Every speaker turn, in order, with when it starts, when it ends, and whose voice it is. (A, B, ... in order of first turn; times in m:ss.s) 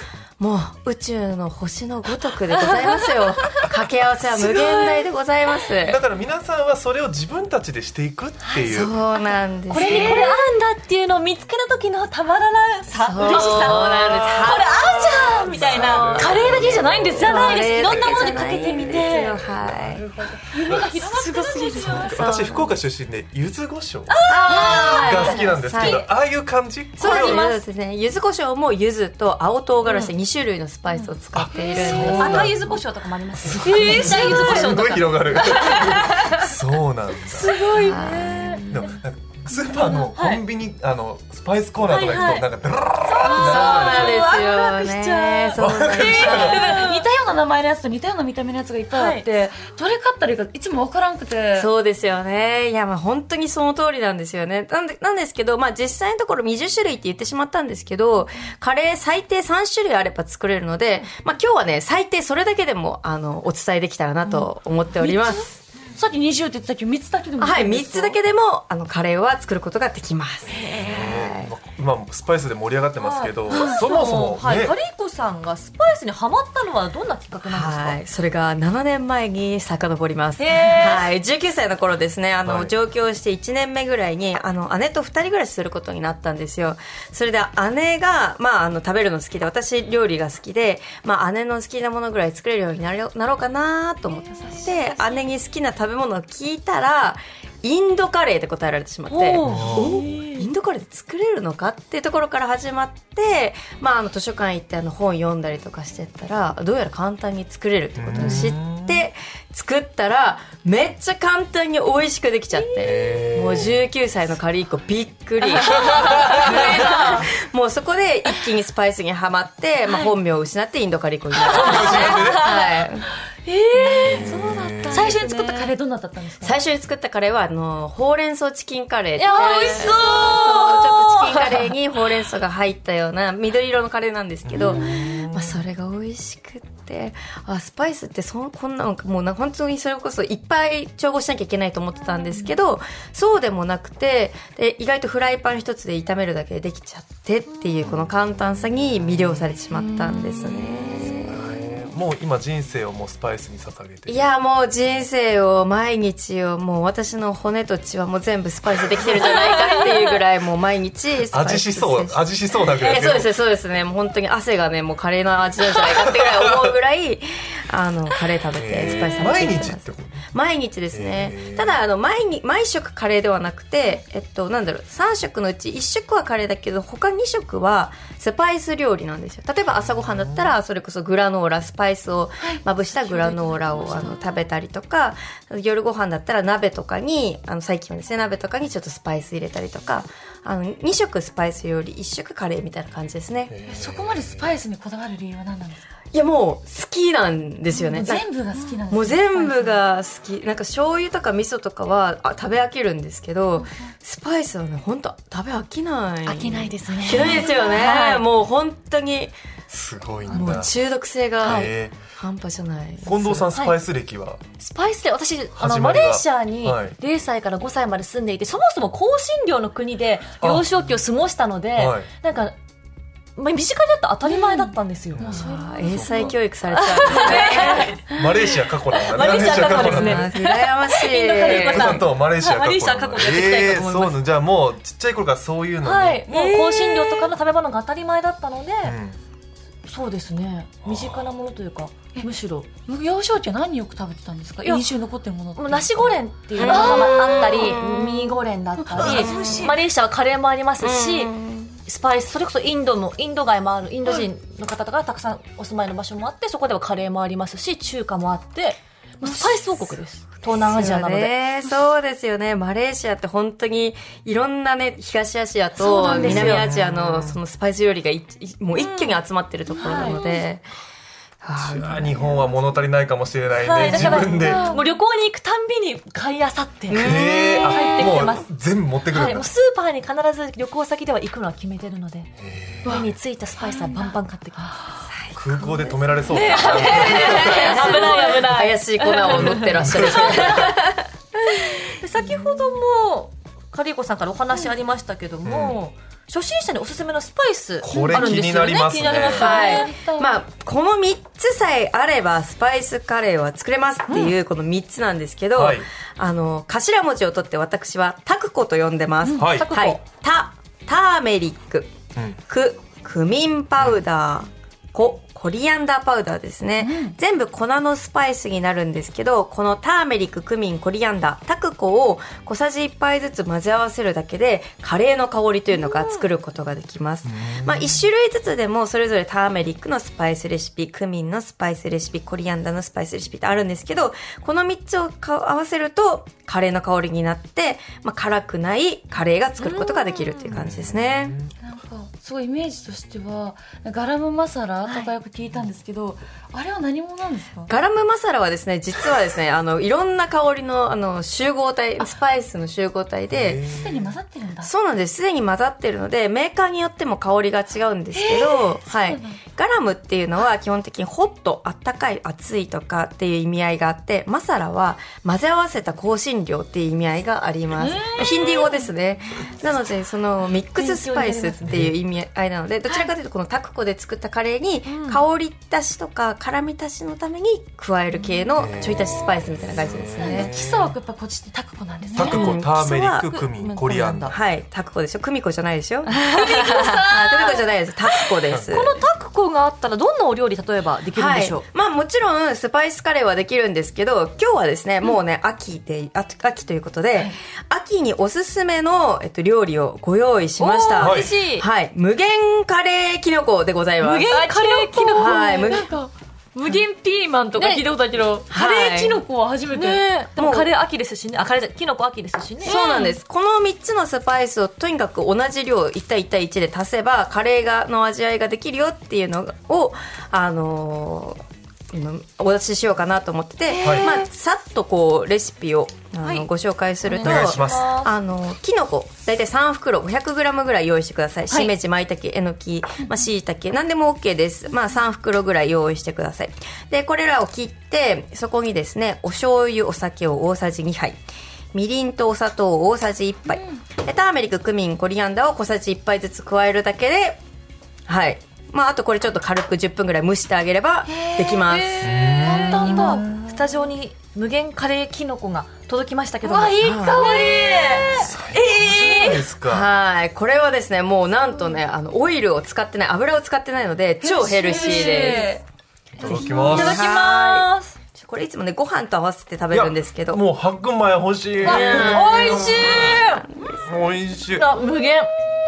0:00.4-0:06.0 A
0:04.4-0:04.9 B
0:05.8-0:09.0 B
0:08.6-0:10.3 A
0:09.7-0:19.4 C
0:09.7-0:10.4 D
0:12.9-0:14.9 A
0:13.2-0:17.4 B
0:15.5-0:20.1 A
0:16.0-0:19.3 D
0:18.7-0:21.0 B
0:20.5-0:22.4 D
0:20.7-0:22.1 C
0:21.7-0:27.5 B
0:21.9-0:22.8 A
0:24.1-0:26.1 C
0:24.3-0:26.1 A
0:24.5-0:25.3 D
0:27.0-0:32.5 A
0:27.0-0:27.6 C
0:29.9-0:30.1 C
0:30.9-0:32.4 D
0:31.3-0:32.8 B
0:32.0-0:36.3 C
0:33.4-0:37.6 B
0:33.6-0:34.6 D
0:35.5-0:35.9 D
0:37.3-0:38.6 D
0:37.6-0:38.9 C
0:37.6-0:38.9 A
0:38.3-0:44.3 B
0:39.9-0:40.4 C
0:41.8-0:42.5 C
0:43.0-0:45.5 C
0:43.2-0:46.9 A
0:45.6-0:46.8 B
0:45.9-0:51.7 D
0:46.3-0:47.0 C
0:48.9-0:49.2 C
0:51.6-1:05.6 A
1:04.3-1:08.2 D
1:07.4-1:11.5 A
1:10.6-1:14.8 B
1:13.0-1:18.0 C
1:13.4-1:14.0 D
1:17.4-2:03.1 A
1:20.4-1:21.1 D
1:20.5-1:21.0 C
1:22.4-1:22.7 B
1:34.1-1:35.3 D
1:39.1-1:40.5 C
1:39.4-1:40.1 B
1:48.0-1:49.1 B
1:52.8-1:53.9 B
1:55.7-1:57.3 D
1:55.8-1:56.9 B
1:56.0-1:57.2 C
2:01.5-2:02.7 B
2:01.5-2:02.5 D
2:03.5-2:06.6 D
2:03.7-2:05.7 C
2:03.8-2:05.2 B
2:06.4-2:31.6 A
2:09.2-2:11.7 C
2:09.3-2:10.5 D
2:14.4-2:15.6 B
2:29.0-2:29.4 B
2:29.7-2:30.7 D
2:30.4-2:34.2 B
2:34.1-3:13.6 A
2:41.3-2:43.3 B
2:45.8-2:46.7 B
2:48.6-2:50.3 B
2:50.9-2:51.8 B
3:00.0-3:00.6 B
3:02.4-3:04.2 D
3:13.5-3:14.6 B
3:13.7-3:15.9 D
3:16.1-3:18.3 A
3:17.7-3:19.8 D
3:18.9-3:29.4 A
3:26.3-3:28.2 C
3:27.1-3:28.0 D
3:29.7-3:30.7 B
3:30.3-3:33.5 A
3:31.4-3:32.0 B
3:33.0-3:34.4 B
3:34.6-3:42.6 C
3:35.6-3:37.0 B
3:40.4-3:40.7 B
3:41.8-3:42.1 B
3:43.4-3:45.3 C
3:44.3-3:46.3 D
3:45.1-3:46.4 B
3:45.5-3:48.0 A
3:46.7-3:48.1 C
3:47.1-3:47.8 D
3:48.1-3:50.3 B
3:48.9-3:54.2 C
3:49.4-3:52.0 A
3:49.8-3:50.1 D
3:51.4-3:56.3 B
3:55.8-3:59.0 C
3:56.3-3:57.3 D
3:58.8-3:59.2 B
3:59.9-4:02.7 C
4:00.8-4:01.3 B
4:02.9-4:07.9 D
4:05.6-4:11.3 C
4:06.6-4:08.4 A
4:08.8-4:09.8 D
4:09.0-4:09.6 A
4:10.8-4:11.8 A
4:11.8-4:21.3 C
4:20.5-4:30.7 A
4:25.8-4:26.7 C
4:25.8-4:26.4 D
4:26.2-4:27.4 B
4:28.8-4:29.2 D
4:29.8-4:30.3 C
4:29.8-4:30.4 D
4:31.4-4:32.4 A
4:31.6-4:34.7 B
4:33.6-4:38.5 C
4:33.8-4:34.8 D
4:36.9-4:38.1 A
4:36.9-4:39.5 B
4:39.0-4:44.8 C
4:42.4-4:43.2 B
4:43.6-4:44.2 D
4:45.3-4:48.0 B
4:46.3-4:48.5 D
4:46.3-4:50.8 C
4:46.9-4:51.1 A
4:49.5-4:50.3 B
4:51.4-4:59.9 C
4:55.4-4:55.8 B
4:57.8-4:59.5 B
4:57.9-4:58.5 D
4:59.1-5:00.4 D
4:59.4-5:12.0 A
5:05.6-5:05.9 B
5:09.2-5:09.5 D
5:09.3-5:09.7 B
5:09.5-5:10.0 C
5:12.5-5:41.4 A
5:16.8-5:17.2 D
5:27.2-5:28.0 B
5:39.6-5:40.6 C
5:40.5-5:41.5 B
5:41.6-5:47.7 D
5:47.7-5:53.6 A
5:53.3-5:54.1 B
5:53.6-5:54.7 D
5:54.6-6:20.5 A
5:58.1-5:59.4 D
6:07.8-6:08.9 D
6:10.8-6:11.8 C
6:11.7-6:11.9 B
6:14.9-6:15.2 C
6:18.6-6:20.9 B
6:20.2-6:22.4 D
6:22.2-6:24.4 B
6:22.2-6:23.3 A
6:22.3-6:24.4 C
6:24.3-6:29.0 A
6:26.1-6:27.6 C
6:26.4-6:27.7 D
6:28.7-6:31.6 C
6:31.1-6:44.5 A
6:40.6-6:41.7 C
6:41.0-6:41.3 B
6:44.0-6:45.9 C
6:44.3-6:50.0 D
6:45.2-6:45.9 A
6:47.6-6:47.9 C
6:48.5-6:49.2 A
6:49.7-6:52.8 C
6:50.4-6:50.7 A
6:52.6-7:01.4 A
6:52.6-6:53.2 D
7:01.9-7:21.2 A
7:03.7-7:04.3 D
7:03.8-7:04.1 B
7:06.2-7:06.5 C
7:07.0-7:08.1 C
7:07.2-7:07.9 B
7:21.7-7:27.4 A
7:28.1-7:32.3 A
7:31.1-7:33.3 D
7:32.0-7:33.5 B
7:32.4-7:39.4 C
7:36.4-7:39.4 D
7:36.8-7:37.7 A
7:38.1-7:39.9 B
7:39.6-7:45.6 A
7:44.2-7:45.6 D
7:44.7-7:45.4 C
7:46.2-7:47.0 B
7:46.2-7:50.4 A
7:46.2-7:46.8 D
7:46.5-7:48.0 C
7:49.7-7:53.2 B
7:51.6-7:53.8 A
7:51.6-7:53.2 D
7:51.6-7:53.5 C
7:53.8-7:54.7 B
7:54.5-7:55.5 C